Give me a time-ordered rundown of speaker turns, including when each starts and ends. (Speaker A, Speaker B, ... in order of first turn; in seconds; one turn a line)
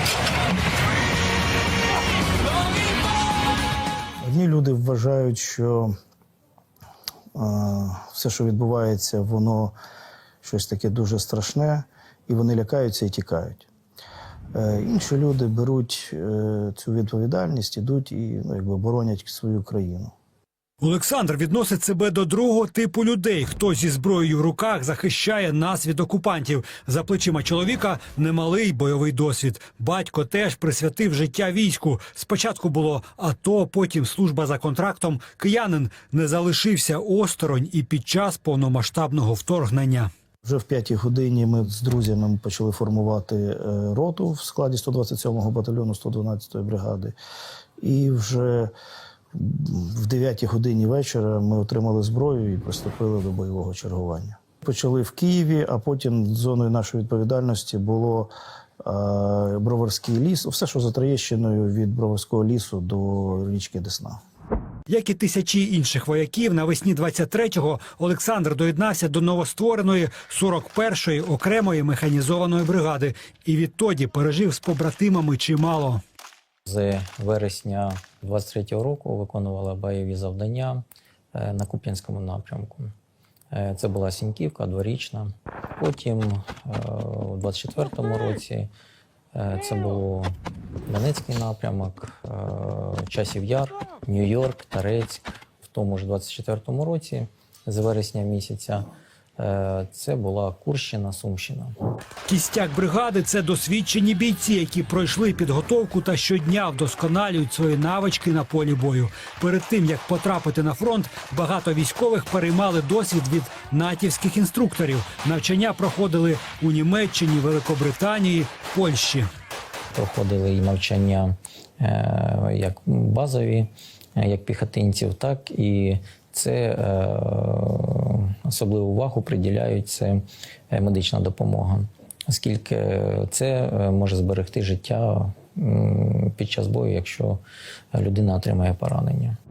Speaker A: 4.2-5.9
Speaker A: 7.3-9.7
Speaker A: 10.4-13.7
Speaker A: 14.5-20.1
Speaker B: 20.8-40.1
Speaker A: 40.4-47.1
Speaker A: 47.8-48.7
Speaker A: 49.3-64.2
Speaker B: 64.9-76.0
Speaker C: 76.6-82.9
Speaker C: 83.5-88.7
Speaker C: 89.3-90.3
Speaker C: 90.9-101.7
Speaker B: 102.2-119.3
Speaker C: 119.9-137.4
Speaker C: 137.9-139.4